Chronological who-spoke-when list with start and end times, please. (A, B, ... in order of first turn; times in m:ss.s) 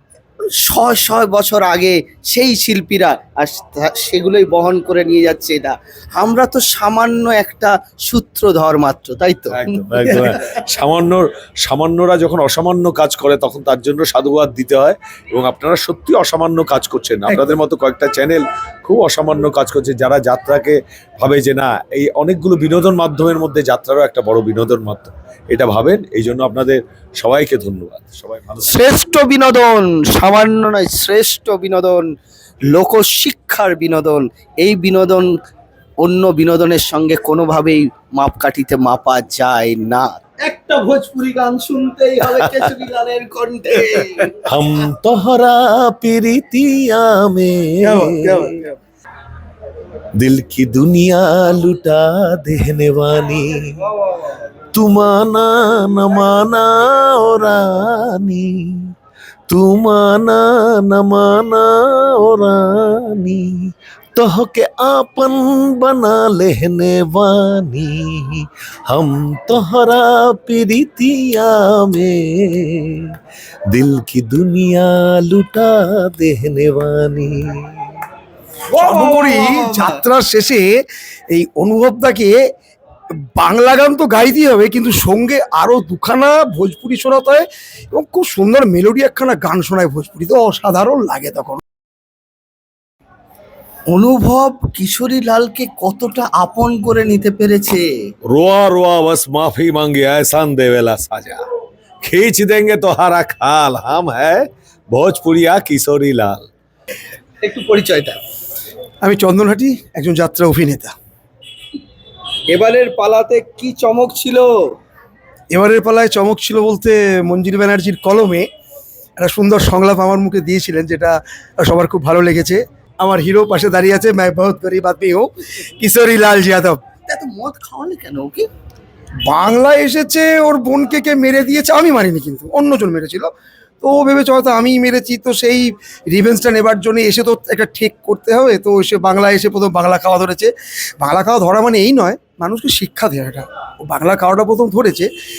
0:00.6-0:10.2 A
0:09.5-0:28.8 B
0:17.3-0:17.5 C
0:28.6-0:32.0 A
0:32.7-0:35.3 A
0:36.0-0:44.4 A
0:44.5-0:48.0 B
0:47.8-0:48.7 C
0:50.2-0:53.5 B
0:54.7-0:58.5 B
0:59.5-1:03.4 B
1:04.2-1:12.7 B
1:13.7-1:17.5 B
1:18.7-1:20.0 A
1:18.8-1:20.6 C
1:21.3-1:22.4 C
1:23.4-1:31.6 C
1:33.9-1:37.8 A
1:38.3-1:41.4 B
1:42.0-1:46.4 B
1:47.4-1:48.2 A
1:49.0-1:50.9 C
1:52.5-1:54.5 A
1:55.5-1:58.5 C
1:59.2-2:06.8 C
2:07.1-2:08.5 A
2:09.3-2:13.3 C
2:13.8-2:25.1 C